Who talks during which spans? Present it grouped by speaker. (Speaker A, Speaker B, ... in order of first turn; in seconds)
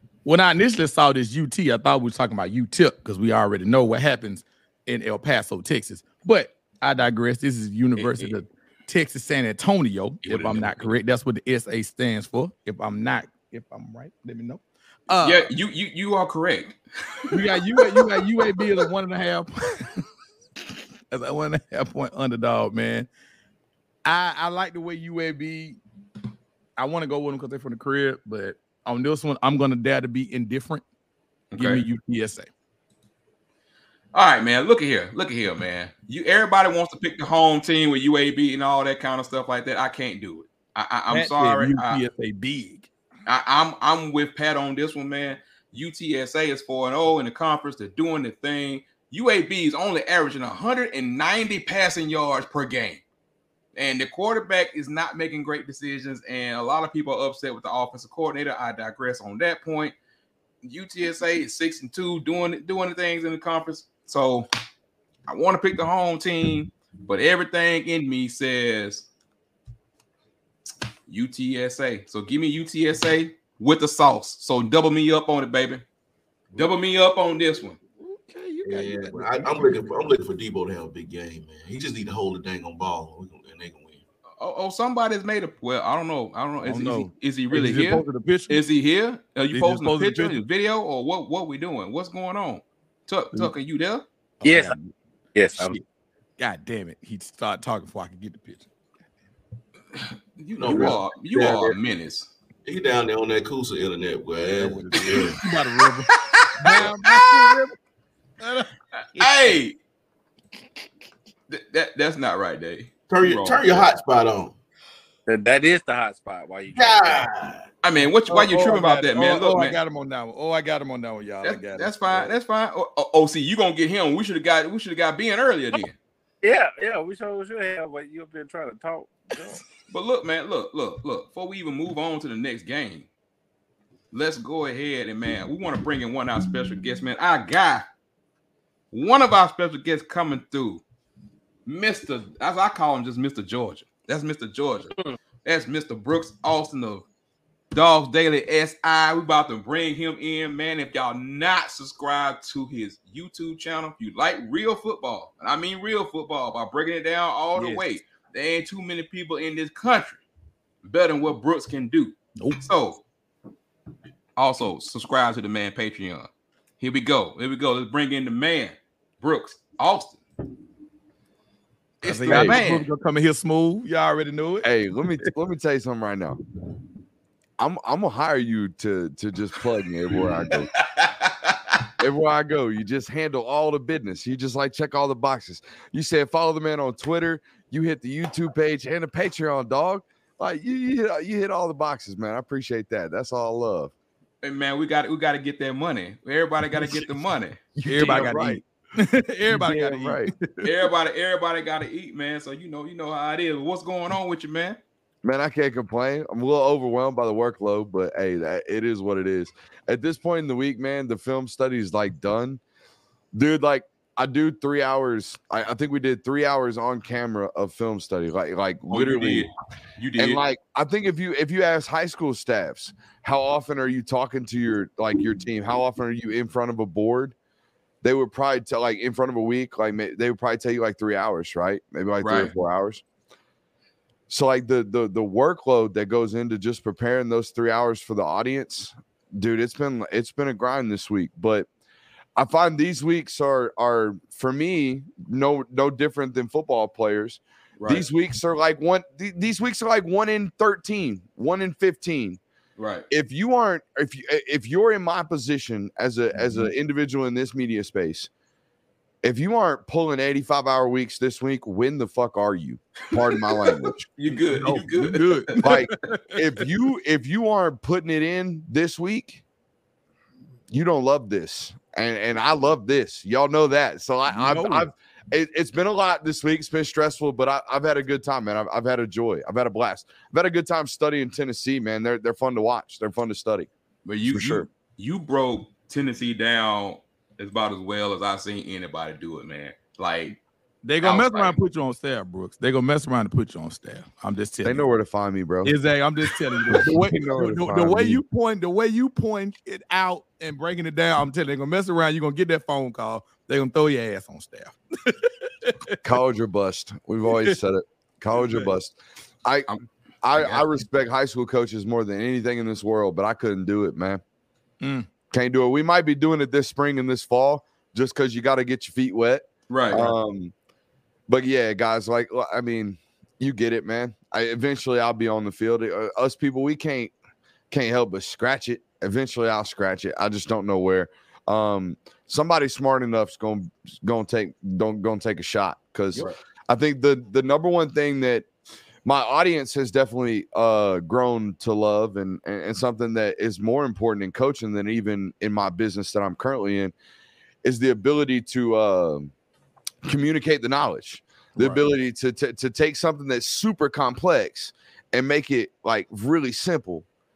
Speaker A: 0.2-15.5, 17.3-20.0, 21.1-23.1, 24.0-25.8, 26.8-30.8, 31.5-32.5, 41.1-42.9, 78.0-80.0, 86.6-88.6, 89.5-90.4, 94.4-94.9, 95.5-95.8, 96.4-98.7, 100.7-101.0, 104.6-107.8, 108.4-108.7, 118.2-122.3, 157.5-157.8, 162.3-162.6, 172.0-174.7, 196.8-197.0, 197.8-200.6, 264.3-266.4, 274.3-274.9, 290.8-294.9, 295.6-306.0, 307.3-307.6, 308.3-308.7, 314.8-315.1, 351.6-351.9
Speaker B: 8.0-8.3, 10.2-10.9, 15.2-17.4, 31.5-31.8, 34.1-42.0, 43.2-53.0, 53.7-59.9, 60.6-64.5, 65.3-69.1, 71.1-75.8, 76.5-77.8, 84.4-94.0, 100.4-102.3, 106.3-107.5, 109.2-109.8, 111.5-113.9, 117.8-119.8, 121.4-126.0, 129.9-133.1, 134.1-137.8, 138.9-140.8, 141.7-147.0, 147.7-160.2, 160.8-163.0, 164.3-166.3, 166.8-170.2, 172.0-172.9, 180.8-181.6, 194.4-198.3, 200.6-204.8, 218.9-220.4, 232.2-232.5, 247.8-248.1, 252.8-253.1, 263.2-265.9, 284.0-290.4, 291.0-291.6, 309.7-310.7, 319.7-320.1
Speaker C: 78.6-84.0, 100.6-101.7, 102.6-105.4, 113.1-114.5, 116.7-117.7
Speaker D: 94.4-94.7, 95.3-95.8, 115.3-117.3, 126.4-129.6
Speaker E: 172.3-172.6, 174.6-176.4, 177.6-180.8, 182.0-193.9, 197.8-198.6, 199.5-200.3, 205.2-212.6, 213.3-219.5, 220.2-227.3, 228.0-233.0, 234.3-241.7, 242.3-252.4, 253.1-258.3, 259.2-264.0, 265.6-269.4, 270.7-283.7, 284.3-284.7, 294.6-295.7, 296.7-298.2, 306.0-309.7, 310.2-314.2, 315.3-320.5, 321.3-327.1, 327.7-338.4, 339.0-346.9, 347.6-349.3, 350.0-357.0